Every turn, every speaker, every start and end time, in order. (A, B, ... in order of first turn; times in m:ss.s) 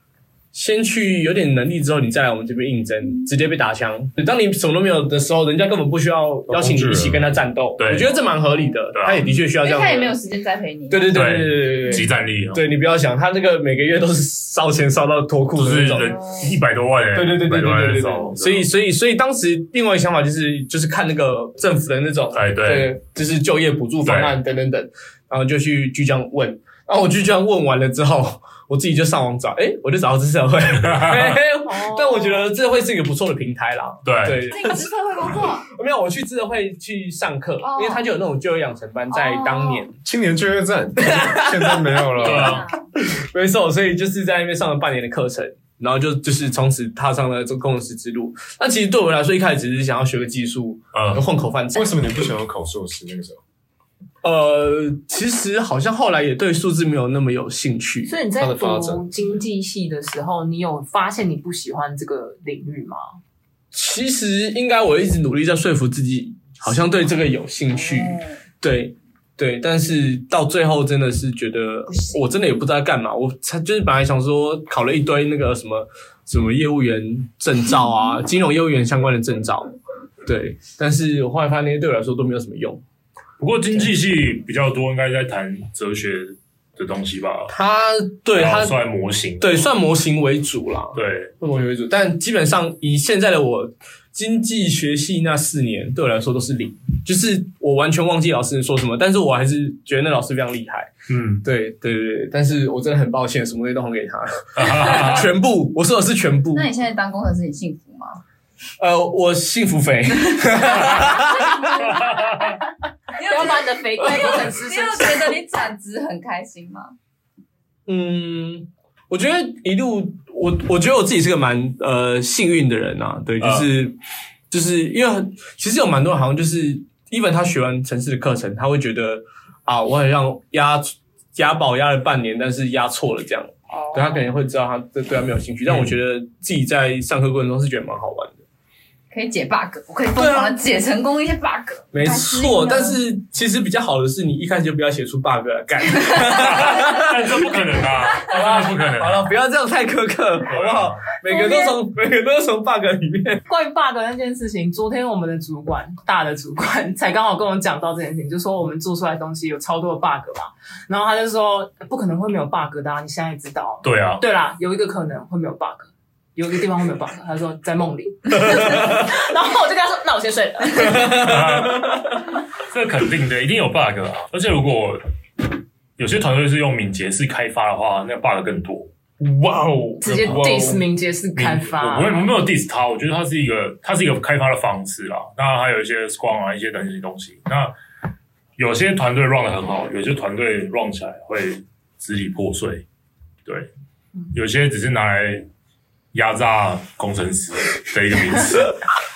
0:00.5-0:10.2 A
0:06.5-0:07.4 B
0:07.8-0:08.1 C
0:08.0-0:12.0 D
0:08.9-0:09.2 C
0:10.9-0:16.2 A
0:11.1-0:12.6 C
0:15.5-0:18.7 C
0:16.2-0:16.4 D
0:17.1-0:40.0 A
0:22.3-0:22.9 C
0:24.0-0:24.4 C
0:31.5-0:32.5 E
0:34.0-0:34.4 C
0:34.5-0:35.6 D
0:37.6-0:38.0 D
0:39.1-0:39.8 D
0:40.0-0:42.6 B
0:41.0-0:51.9 A
0:42.2-0:42.7 C
0:42.2-0:42.8 D
0:50.9-0:51.2 C
0:51.7-0:53.4 B
0:54.2-0:58.1 A
0:58.1-1:03.1 E
0:58.4-0:59.1 B
1:03.7-1:19.7 A
1:07.7-1:08.3 D
1:20.2-1:22.8 A
1:23.4-1:27.5 C
1:27.5-1:28.7 A
1:28.3-1:29.7 C
1:29.4-1:40.9 A
1:30.9-1:31.3 C
1:41.1-1:41.4 C
1:41.4-1:46.7 A
1:44.6-1:45.3 C
1:46.5-1:48.2 D
1:48.8-1:51.9 A
1:50.3-1:52.6 D
1:52.0-1:52.5 C
1:53.2-1:56.9 D
1:53.2-1:55.3 E
1:57.9-2:04.0 A
2:03.4-2:03.7 C
2:04.5-2:18.4 A
2:13.7-2:14.3 D
2:15.6-2:16.0 C
2:19.1-2:23.0 D
2:20.2-2:20.6 A
2:21.9-2:27.6 A
2:26.2-2:29.3 C
2:28.2-2:33.4 A
2:30.5-2:31.0 C
2:31.2-2:31.8 E
2:33.5-2:51.2 E
2:43.8-2:44.2 C
2:48.5-2:49.0 A
2:50.7-2:52.1 A
2:51.1-2:52.1 C
2:52.7-2:55.0 C
2:56.0-2:58.9 C
2:59.2-3:00.8 A
3:00.0-3:02.3 E
3:00.1-3:00.8 C
3:01.4-3:01.7 A
3:01.7-3:07.7 C
3:08.6-3:12.8 C
3:14.3-3:15.5 C
3:16.1-3:18.8 C